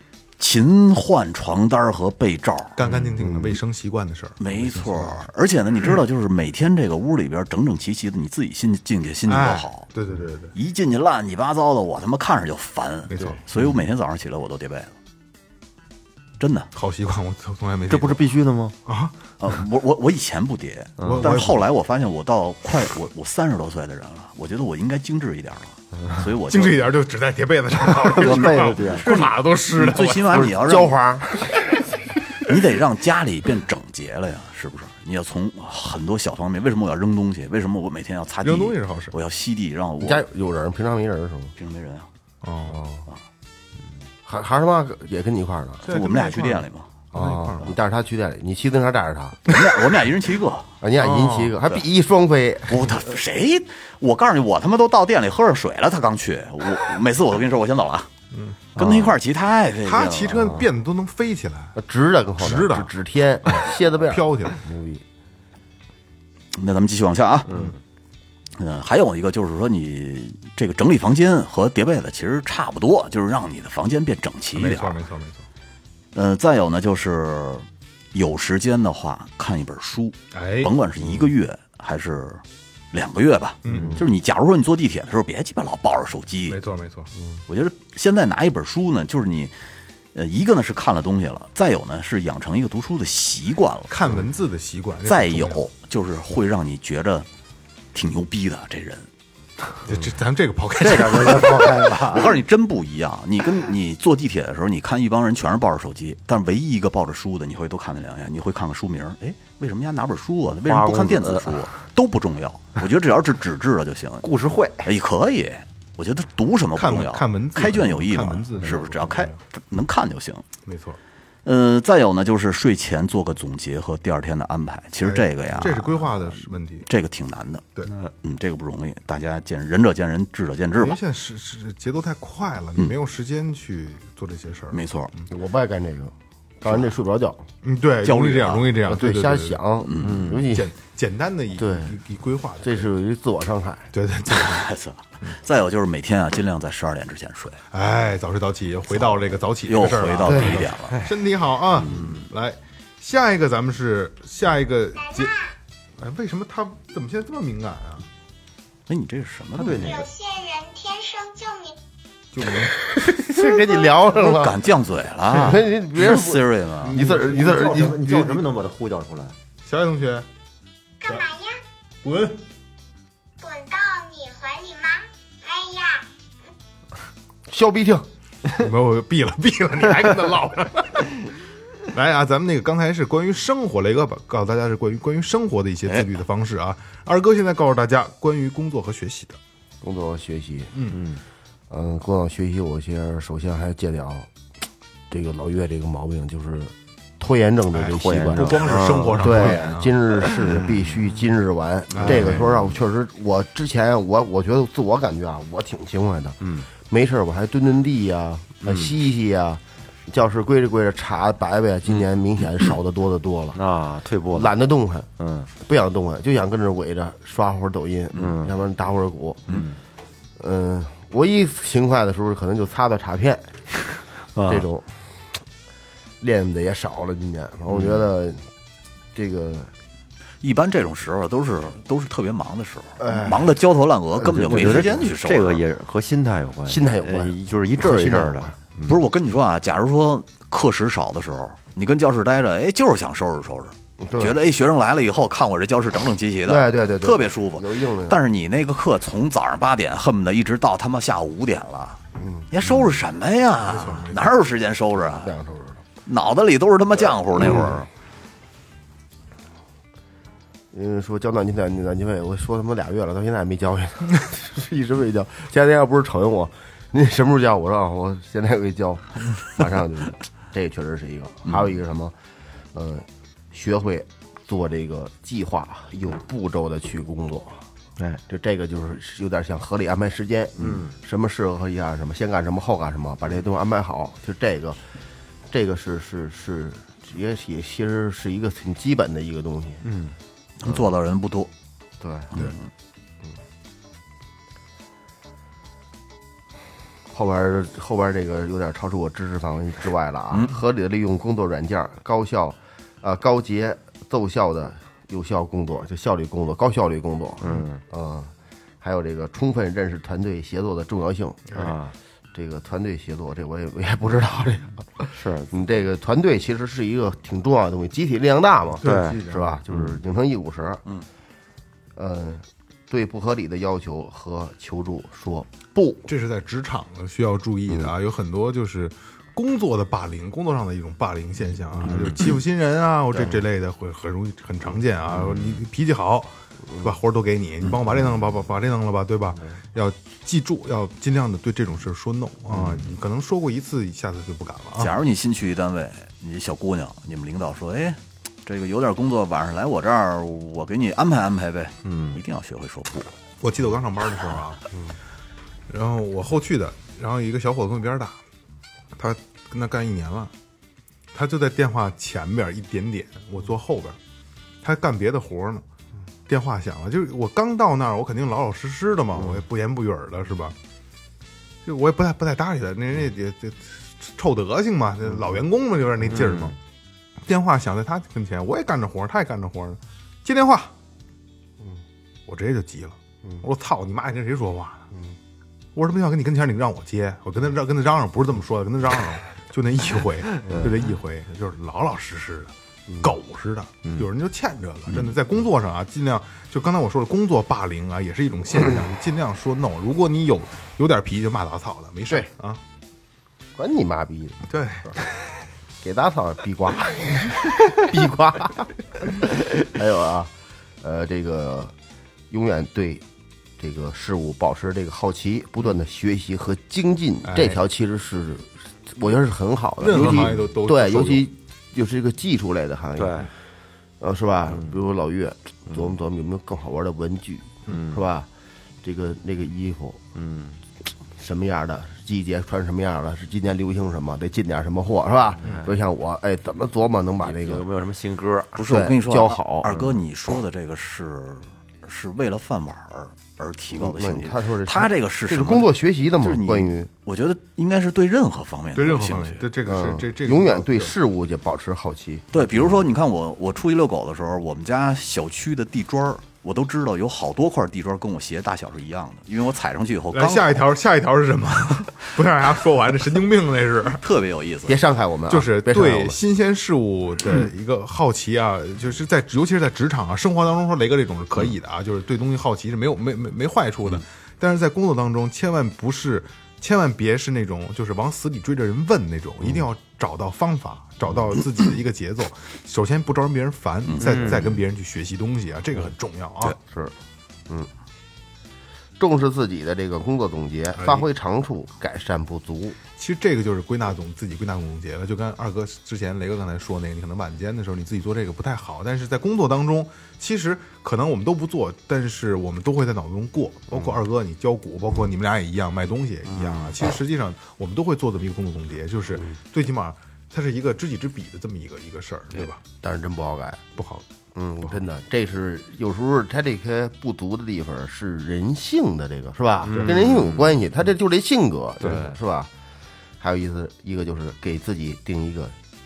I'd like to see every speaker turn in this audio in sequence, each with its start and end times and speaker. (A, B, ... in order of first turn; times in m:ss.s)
0:00.4-0:03.1 A
0:02.8-0:05.3 B
0:04.4-0:09.9 A
0:09.2-0:10.5 B
0:10.5-0:14.9 A
0:13.1-0:13.6 B
0:16.4-0:16.7 A
0:16.7-0:18.2 B
0:17.9-0:18.7 C
0:18.8-0:19.2 B
0:19.4-0:26.9 A
0:21.0-0:21.7 B
0:26.5-0:30.5 B
0:28.0-0:29.1 C
0:28.1-0:30.9 A
0:30.3-0:31.4 D
0:32.4-0:40.2 A
0:38.4-0:39.2 B
0:40.0-0:41.5 D
0:41.6-0:42.1 A
0:42.4-0:42.8 B
0:42.7-0:43.0 D
0:44.2-0:45.8 D
0:45.8-0:47.8 B
0:45.9-0:46.8 A
0:47.1-0:49.5 D
0:49.5-0:50.7 A
0:50.8-0:53.0 D
0:51.0-0:51.6 B
0:52.7-0:58.1 A
0:58.3-0:58.6 B
0:58.7-1:00.6 A
0:58.8-0:59.1 C
0:59.8-1:01.8 B
1:01.8-1:05.0 D
1:02.4-1:02.9 B
1:03.4-1:04.6 B
1:06.5-1:07.6 A
1:08.6-1:15.0 A
1:14.5-1:15.4 B
1:16.1-1:26.6 A
1:20.3-1:20.7 B
1:23.6-1:24.0 B
1:23.8-1:24.0 D
1:26.5-1:27.1 B
1:27.5-1:29.5 A
1:30.1-1:33.9 A
1:33.9-1:35.6 B
1:35.0-1:37.3 A
1:37.9-1:39.1 A
1:39.8-1:41.9 B
1:40.8-1:42.3 C
1:41.9-1:54.2 A
1:50.6-1:51.6 C
1:54.2-1:54.9 C
1:54.8-2:00.4 A
1:56.7-1:59.4 B
2:00.6-2:01.0 B
2:01.4-2:11.0 A
2:05.0-2:06.8 B
2:10.8-2:15.2 B
2:14.7-2:15.1 A
2:15.3-2:17.4 D
2:17.6-2:19.6 B
2:18.0-2:18.8 A
2:18.8-2:20.7 D
2:19.8-2:20.4 A
2:20.0-2:20.4 C
2:20.4-2:22.9 B
2:21.6-2:22.0 D
2:22.6-2:23.9 D
2:23.9-2:24.7 B
2:24.3-2:27.6 A
2:27.7-2:35.4 B
2:29.0-2:31.0 A
2:30.3-2:30.6 D
2:31.8-2:32.2 A
2:35.0-2:35.5 E
2:36.0-2:38.1 B
2:38.9-2:39.9 A
2:39.5-2:40.1 C
2:39.7-2:41.8 E
2:42.3-2:43.6 B
2:42.9-2:44.6 D
2:44.1-2:46.9 A
2:45.3-2:48.0 D
2:46.8-2:49.3 C
2:47.0-2:48.4 B
2:49.6-2:50.3 B
2:51.0-2:51.6 E
2:52.0-2:52.4 B
2:53.4-2:56.0 E
2:57.5-2:58.0 D
2:58.5-3:01.3 B
3:01.9-3:09.4 B
3:09.8-3:10.7 D
3:10.7-3:11.0 B
3:10.9-3:11.2 C
3:11.7-3:14.3 D
3:15.1-3:33.6 D
3:17.7-3:20.0 B
3:17.9-3:19.6 C
3:20.4-3:20.8 C
3:21.9-3:22.5 B
3:22.0-3:22.5 C
3:28.6-3:28.9 C
3:33.5-3:34.6 C
3:34.3-3:39.6 D
3:35.2-3:35.5 C
3:38.1-3:38.5 C
3:39.5-3:39.8 C
3:40.4-3:43.5 D
3:44.3-3:44.7 C
3:44.4-3:45.0 D
3:46.2-3:48.4 D
3:47.7-3:48.0 C
3:49.1-3:49.7 D
3:50.4-3:55.6 A
3:53.0-3:53.5 D
3:54.2-3:55.1 D
3:54.3-3:59.0 C
3:56.7-3:58.5 D
3:58.9-4:15.4 A
4:04.0-4:04.4 D
4:06.4-4:08.2 D
4:12.2-4:12.5 D
4:13.6-4:14.3 B
4:15.0-4:15.8 D
4:16.0-4:17.9 A
4:20.7-4:32.1 D
4:32.7-4:37.6 D
4:38.3-4:44.8 D
4:40.6-4:40.9 C
4:45.5-4:49.8 D
4:49.8-4:50.1 C
4:50.6-4:51.5 A
4:52.0-4:52.5 D
4:52.3-4:52.6 A
4:57.1-5:11.7 D
5:07.4-5:07.8 C
5:11.5-5:11.9 C
5:12.3-5:20.8 D
5:15.1-5:15.5 C
5:18.8-5:19.6 B
5:18.8-5:20.0 C
5:22.0-5:26.0 D
5:26.0-5:45.0 B
5:31.8-5:32.2 A
5:35.2-5:35.5 C
5:44.8-5:53.2 A
5:51.8-5:52.2 C
5:53.4-5:54.6 B
5:55.7-5:58.2 B
5:58.9-6:00.3 B
6:01.1-6:04.0 B
6:04.6-6:05.6 B
6:06.3-6:10.6 B
6:11.6-6:16.6 B
6:16.2-6:16.5 C
6:17.2-6:20.7 B
6:22.2-6:24.9 B
6:25.7-6:42.6 B
6:30.4-6:30.7 D
6:43.6-6:44.9 D
6:44.5-6:45.0 B
6:45.8-6:51.7 D
6:52.3-6:53.0 D
6:53.6-7:03.3 D
6:57.2-6:57.6 B
6:59.8-7:01.3 B
7:03.0-7:03.3 C
7:04.0-7:08.3 D
7:04.5-7:04.8 C
7:07.7-7:08.0 C
7:08.8-7:10.0 D
7:10.1-7:10.6 C
7:11.2-7:17.6 D
7:15.4-7:15.7 C
7:17.2-7:18.6 C
7:18.6-7:29.5 A
7:18.6-7:19.7 D
7:19.7-7:20.0 C
7:23.8-7:26.9 D
7:28.7-7:30.9 B
7:29.6-7:32.7 D
7:32.3-7:40.6 A
7:40.1-7:44.0 B
7:44.0-7:44.8 A
7:44.7-7:46.2 D
7:45.3-8:06.6 B
8:03.9-8:04.4 A
8:04.0-8:04.5 C
8:06.7-8:06.9 D
8:09.0-8:12.8 D
8:10.8-8:11.0 B
8:13.0-8:32.6 B
8:32.8-8:33.8 D
8:33.8-8:34.0 B
8:34.3-8:42.5 D
8:39.6-8:40.2 B
8:40.0-8:40.6 A
8:41.8-8:42.1 B
8:43.2-8:45.5 D